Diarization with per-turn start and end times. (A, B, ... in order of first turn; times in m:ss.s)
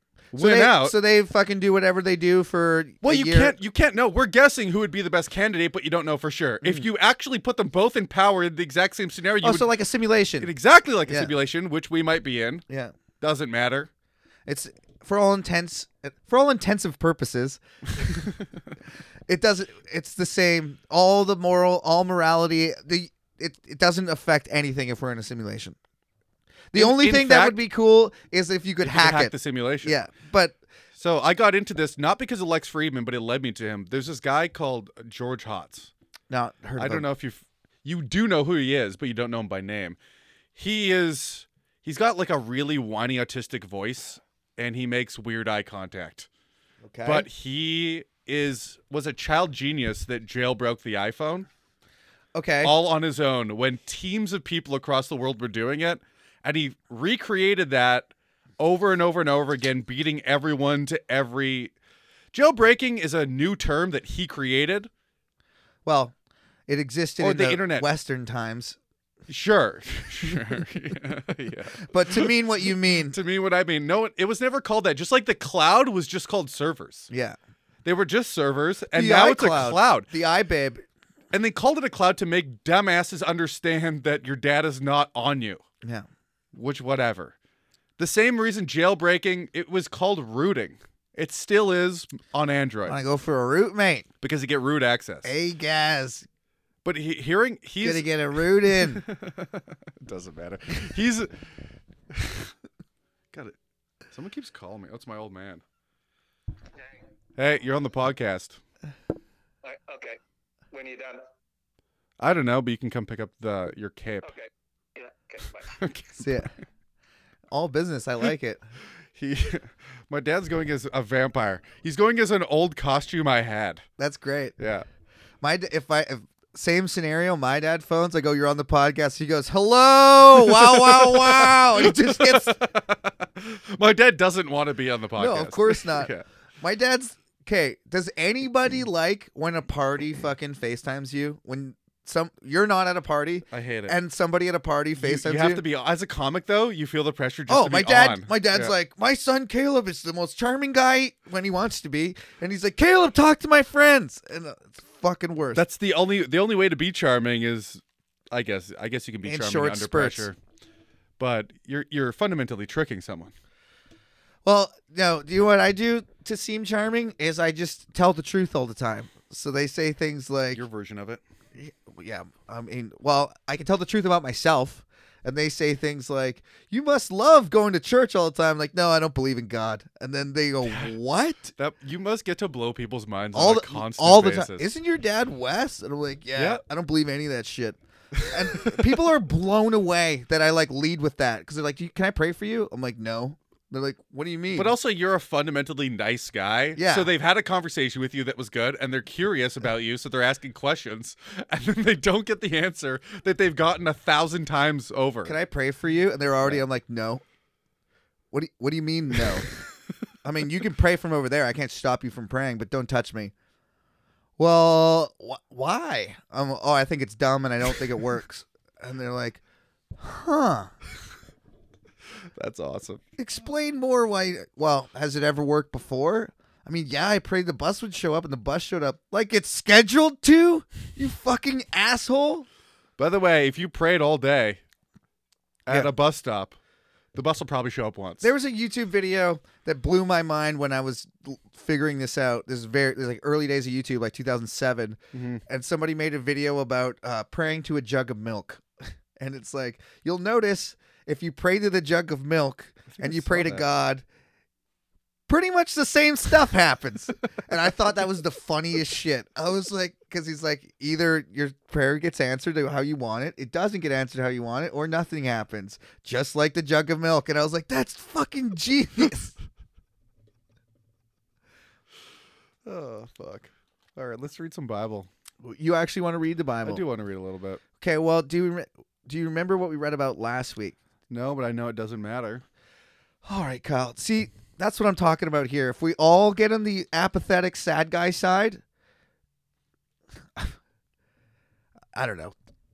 0:00.3-0:00.9 A
0:00.3-0:03.5 B
0:03.0-0:09.7 A
0:09.4-0:10.5 B
0:10.4-0:12.6 A
0:11.0-0:11.3 B
0:12.7-0:12.9 B
0:13.2-0:13.9 A
0:14.4-0:18.1 B
0:19.3-0:25.8 B
0:26.7-0:30.6 B
0:26.7-0:27.6 A
0:28.8-0:30.0 A
0:31.0-0:35.9 A
0:36.3-0:37.0 B
0:36.8-0:40.0 A
0:40.6-0:46.3 A
0:46.8-0:47.3 B
0:47.0-0:51.5 A
0:52.3-0:52.7 B
0:52.6-1:01.7 A
1:02.3-1:04.9 A
1:05.8-1:06.1 B
1:06.7-1:08.8 B
1:07.2-1:07.9 A
1:09.3-1:12.3 A
1:11.9-1:13.2 B
1:13.1-1:17.1 A
1:17.1-1:17.4 B
1:17.8-1:20.1 A
1:18.9-1:20.8 B
1:21.3-1:25.6 A
1:26.5-1:27.3 A
1:28.0-1:33.0 A
1:32.9-1:34.1 B
1:34.2-1:35.3 A
1:35.2-1:36.3 B
1:36.8-1:38.1 A
1:37.8-1:39.0 B
1:38.6-1:41.3 A
1:42.1-1:42.5 A
1:44.1-1:45.6 A
1:47.4-1:48.6 A
1:49.6-1:50.2 C
1:50.7-1:51.2 C
1:52.2-1:54.3 A
1:54.2-1:55.7 C
1:55.7-1:56.5 A
1:56.2-1:56.5 B
1:57.5-1:58.6 B
1:59.1-2:03.8 A
2:04.0-2:04.5 B
2:04.6-2:04.8 A
2:05.4-2:12.6 B
2:10.4-2:16.2 A
2:15.2-2:25.6 B
2:23.5-2:24.0 A
2:25.0-2:28.7 A
2:27.5-2:35.6 B
2:35.5-2:40.4 A
2:39.2-2:40.3 B
2:41.2-2:43.3 A
2:44.4-2:50.6 B
2:50.5-2:51.2 A
2:51.6-3:01.5 B
3:00.6-3:00.9 A
3:01.6-3:04.7 A
3:03.3-3:14.7 B
3:06.4-3:06.6 A
3:08.1-3:08.8 A
3:14.5-3:25.3 A
3:16.8-3:17.1 B
3:25.2-3:27.2 B
3:28.3-3:29.5 B
3:30.2-3:33.3 B
3:34.4-3:39.4 B
3:40.0-3:40.7 B
3:42.4-3:43.0 A
3:43.2-3:52.4 B
3:53.0-3:54.6 A
3:55.6-3:56.6 A
3:57.1-3:58.3 A
3:58.2-4:08.6 B
4:05.1-4:05.4 A
4:09.2-4:14.0 B
4:12.9-4:13.6 A
4:15.3-4:29.3 B
4:32.6-4:35.1 A
4:35.4-4:36.8 B
4:36.6-4:37.6 A
4:37.8-4:40.8 B
4:41.1-4:42.4 A
4:43.2-4:48.6 B
4:51.9-4:52.3 B